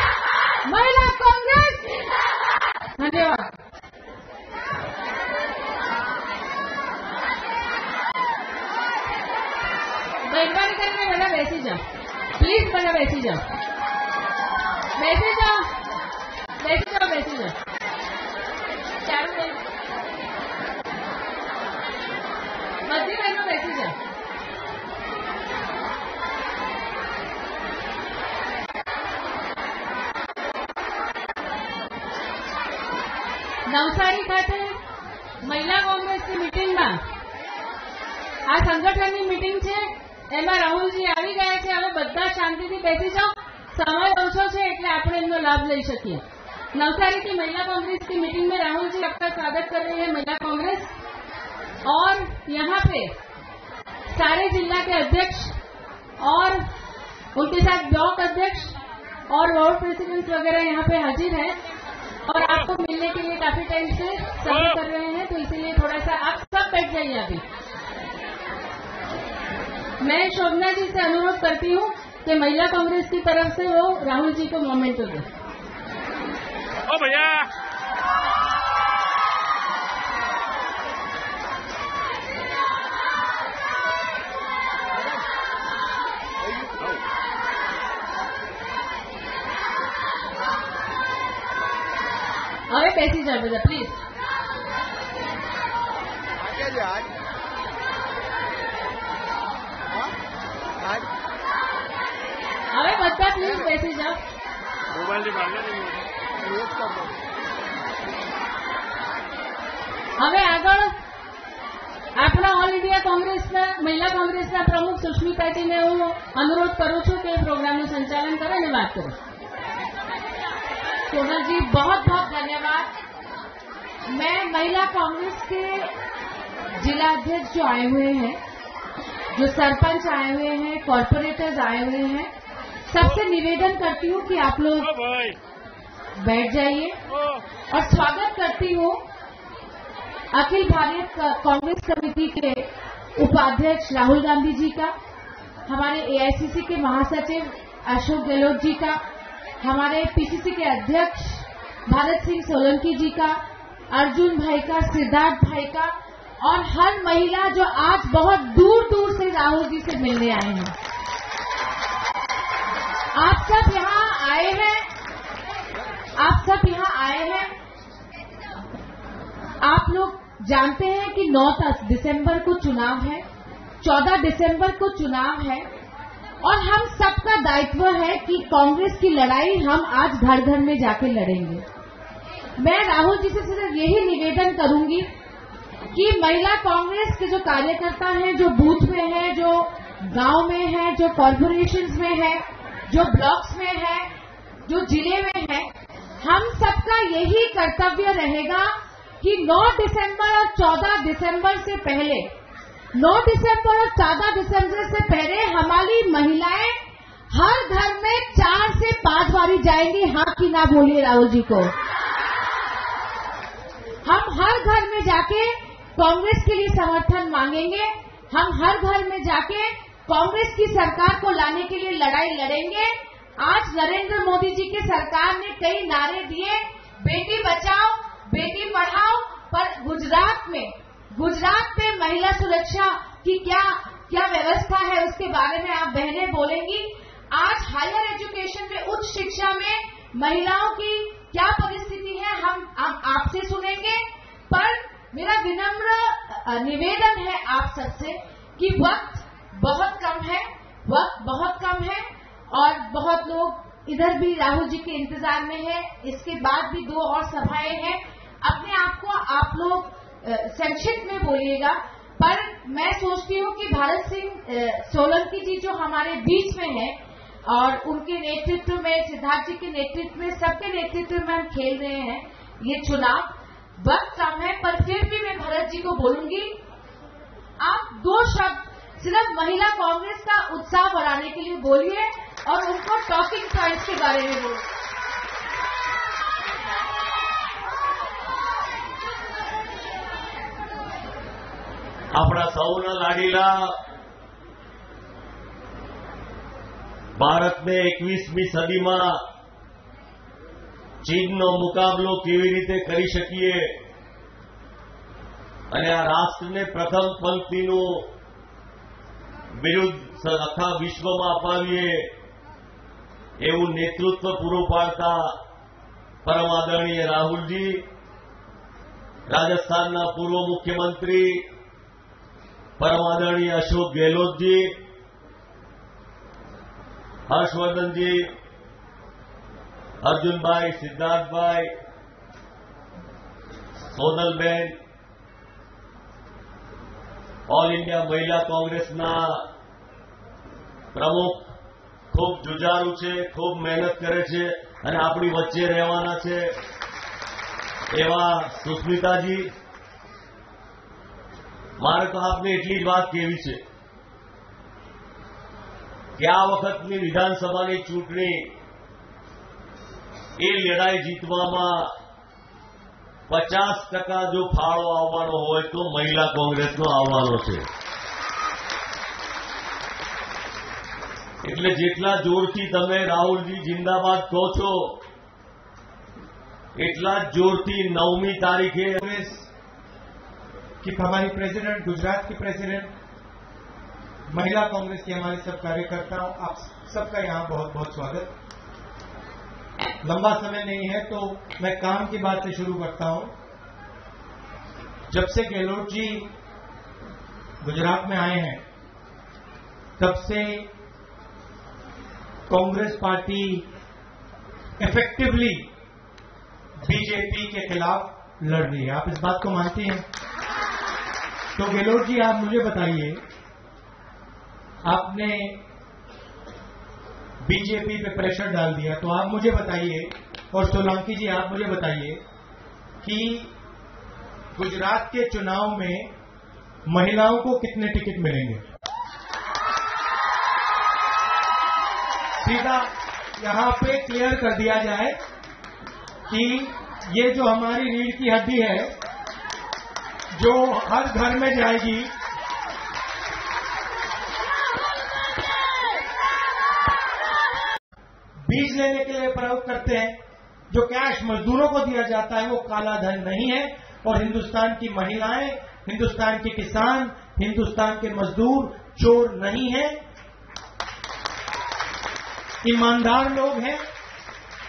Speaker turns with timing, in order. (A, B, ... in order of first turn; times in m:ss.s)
0:00.6-0:02.0 A
0:03.0-0:03.5 A
0:10.3-0:10.9 A
0:10.3-0:11.8 B
0:11.5-0:11.8 A
0:12.4-0:13.4 B
0:15.0-0:15.6 B
0:16.6-0:17.5 B
0:19.0-0:19.6 A
0:22.8-0:23.9 A
0:22.9-0:23.9 B
0:33.7-0:34.6 A
0:33.8-0:34.7 B
0:35.4-0:37.0 B
0:38.5-0:46.2 B
0:46.7-0:50.9 B
0:51.9-0:53.1 B
0:52.3-0:53.0 A
0:54.1-0:54.7 A
0:54.1-0:55.5 B
0:56.2-0:56.6 B
0:57.4-0:58.7 A
0:57.4-0:58.7 B
0:59.3-1:01.5 B
1:00.8-1:01.4 A
1:02.3-1:07.4 B
1:10.0-1:15.2 B
1:14.9-1:15.2 A
1:17.0-1:17.4 B
1:32.7-1:33.9 B
1:33.0-1:33.7 A
1:42.7-1:44.1 B
1:43.3-1:44.2 A
1:45.2-1:45.8 B
1:50.2-1:50.9 A
1:50.2-1:50.9 B
1:52.2-1:59.1 B
1:52.6-1:53.8 A
1:54.3-1:56.3 A
1:58.4-1:59.1 A
2:01.1-2:02.9 A
2:04.1-2:05.9 A
2:06.8-2:08.4 A
2:09.3-2:12.3 A
2:12.9-2:14.9 A
2:16.2-2:17.0 A
2:17.7-2:19.0 A
2:20.3-2:24.9 A
2:25.7-2:29.0 A
2:29.6-2:33.4 A
2:33.9-2:40.7 A
2:43.1-2:44.9 A
2:46.2-2:47.5 A
2:49.6-2:53.2 A
2:53.8-2:55.7 A
2:56.4-3:01.6 A
3:02.6-3:05.1 A
3:05.9-3:14.1 A
3:14.6-3:15.7 A
3:16.2-3:22.3 A
3:22.9-3:26.8 A
3:27.3-3:31.7 A
3:34.0-4:27.0 A
4:27.5-4:36.6 A
4:37.6-4:44.6 A
4:52.1-4:53.7 C
4:57.2-4:59.1 C
5:01.0-5:03.6 C
5:05.7-5:08.0 C
5:09.6-5:12.1 C
5:13.4-5:15.3 C
5:16.2-5:17.8 C
5:19.3-5:21.3 C
5:22.8-5:24.7 C
5:27.3-5:28.2 C
5:30.0-5:31.7 C
5:33.9-5:34.7 C
5:37.5-5:39.4 C
5:40.9-5:41.4 C
5:42.1-5:46.4 C
5:47.9-5:49.5 C
5:51.8-5:53.6 C
5:56.2-5:58.5 C
6:00.4-6:01.9 C
6:03.3-6:07.6 C
6:11.4-6:15.0 C
6:16.8-6:19.0 C
6:19.0-6:19.5 D
6:20.8-6:22.9 D
6:24.3-6:28.3 D
6:30.0-6:33.3 D
6:35.1-6:36.3 D
6:37.6-6:38.6 D
6:40.0-6:40.7 D
6:42.5-6:43.6 D
6:44.8-6:45.7 D
6:46.8-6:50.0 D
6:51.6-6:53.2 D
6:54.8-6:55.6 D
6:57.4-7:02.2 D
7:03.0-7:03.5 D
7:04.5-7:06.1 D
7:06.8-7:08.6 D
7:12.4-7:15.2 D
7:16.3-7:18.9 D
7:20.4-7:22.1 D
7:28.5-7:30.2 D
7:30.7-7:40.0 D
7:42.6-7:43.8 D